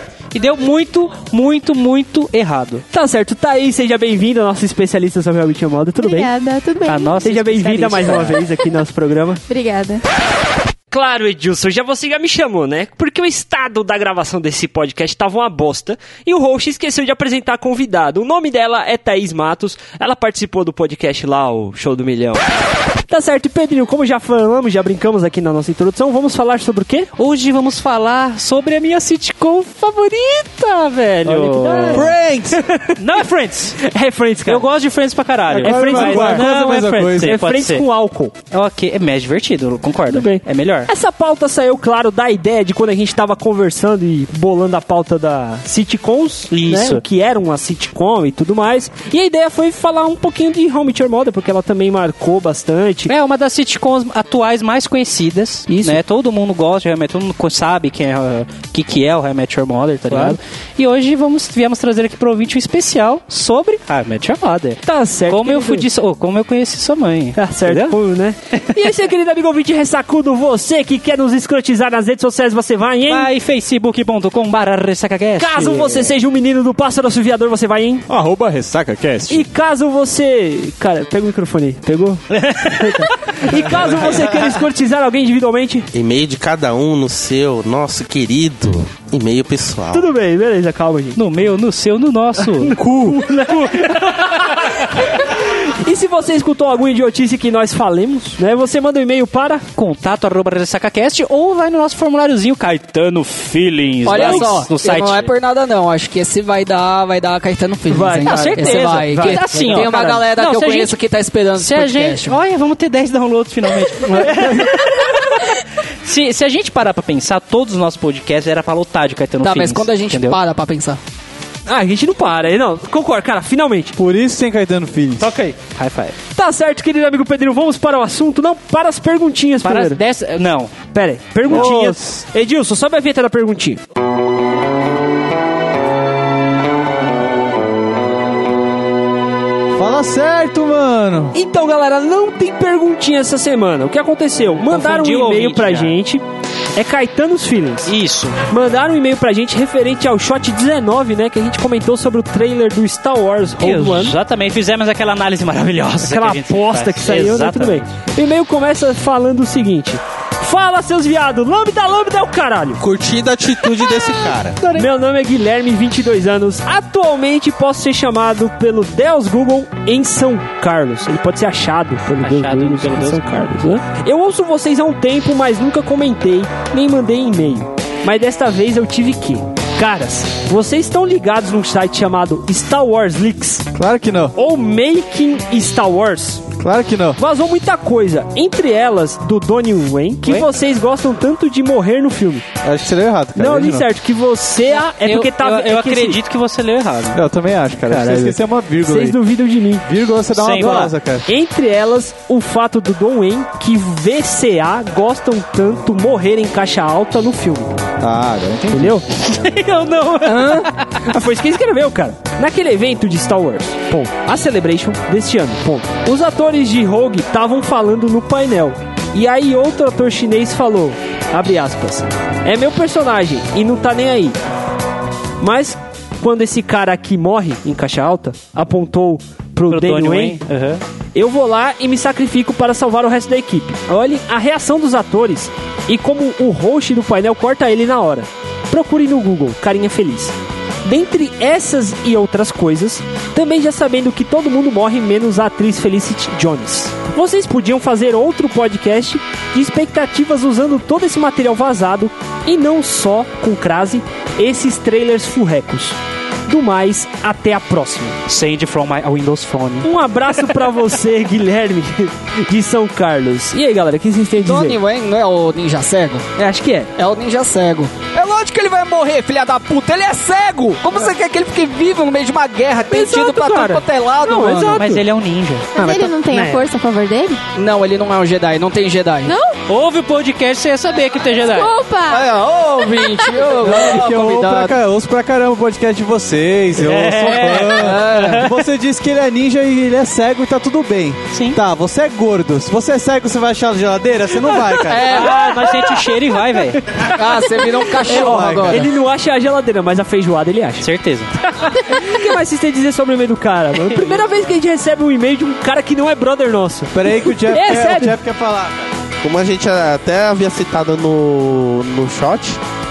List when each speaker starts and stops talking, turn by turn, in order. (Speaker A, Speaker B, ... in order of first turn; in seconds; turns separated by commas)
Speaker A: 0.3-2.8, Speaker B: 2.9-6.3, Speaker C: 6.0-7.2, Speaker A: 6.8-8.4, Speaker B: 7.2-9.4, Speaker C: 9.5-10.0, Speaker B: 10.9-22.4, Speaker B: 23.1-27.1, Speaker A: 27.2-32.1, Speaker B: 30.9-33.0, Speaker D: 31.9-32.6, Speaker A: 33.0-33.8, Speaker B: 33.8-34.6, Speaker A: 34.5-37.9, Speaker D: 35.5-37.4, Speaker B: 35.5-38.3, Speaker A: 38.5-40.9, Speaker B: 40.1-53.1, Speaker A: 46.5-47.0, Speaker A: 53.1-68.0, Speaker B: 55.7-56.0, Speaker B: 60.1-60.4, Speaker B: 64.8-65.9, Speaker B: 67.3-73.3, Speaker A: 73.0-76.1, Speaker B: 75.4-78.0, Speaker D: 78.1-79.5, Speaker B: 79.3-85.9, Speaker A: 82.3-84.4, Speaker E: 85.9-90.1, Speaker B: 89.9-91.2, Speaker A: 91.2-92.8, Speaker B: 92.4-99.6, Speaker D: 92.8-93.2, Speaker A: 99.8-105.3, Speaker F: 104.0-112.4, Speaker B: 104.2-104.4, Speaker B: 107.9-110.2, Speaker A: 108.3-111.0, Speaker A: 111.5-120.4, Speaker F: 114.1-114.4, Speaker F: 119.4-121.0, Speaker B: 121.7-124.0, Speaker D: 124.0-125.3, Speaker A: 125.2-126.2, Speaker B: 126.3-130.0, Speaker A: 129.6-130.7, Speaker B: 130.9-133.8, Speaker D: 131.5-132.2, Speaker D: 139.7-141.3, Speaker B: 141.3-146.2, Speaker A: 144.6-146.0, Speaker B: 146.8-147.9, Speaker A: 147.8-148.4, Speaker B: 148.5-154.2, Speaker A: 153.6-157.8, Speaker B: 156.0-162.8, Speaker E: 162.8-164.6, Speaker A: 163.8-164.9, Speaker B: 164.7-183.7, Speaker A: 172.2-173.4, Speaker D: 183.7-184.3, Speaker B: 184.3-186.4, Speaker D: 186.6-187.2, Speaker B: 187.2-192.4, Speaker D: 192.6-193.8, Speaker B: 193.3-196.2, Speaker A: 194.7-197.2, Speaker D: 197.1-199.2, Speaker B: 197.9-199.8, Speaker D: 199.8-201.3, Speaker A: 200.3-200.9, Speaker B: 201.2-207.7, Speaker D: 208.0-209.0, Speaker B: 208.7-209.1, Speaker A: 209.2-210.9, Speaker B: 210.2-224.4, Speaker F: 210.2-210.7, Speaker B: 225.4-230.4, Speaker A: 229.7-230.8, Speaker B: 231.2-258.2, Speaker A: 258.3-259.9, Speaker B: 259.8-264.8, Speaker F: 264.4-266.2, Speaker B: 266.4-266.9, Speaker F: 266.9-274.9, Speaker B: 272.9-275.0, Speaker A: 274.7-275.7, Speaker C: 275.7-277.4, Speaker B: 275.8-276.6, Speaker F: 277.6-279.3, Speaker C: 279.2-279.6, Speaker A: 279.7-281.7, Speaker C: 281.4-282.4, Speaker F: 282.1-284.7, Speaker C: 282.9-283.2, Speaker D: 283.6-295.1, Speaker A: 286.8-288.5, Speaker F: 287.7-288.4, Speaker A: 291.3-291.6, Speaker F: 294.9-295.4, Speaker B: 295.0-300.9, Speaker A: 295.1-296.8, Speaker F: 297.1-298.9, Speaker D: 298.0-298.9, Speaker A: 300.8-301.3, Speaker B: 301.6-308.2, Speaker A: 303.9-304.2, Speaker D: 306.9-308.9, Speaker E: 309.2-312.6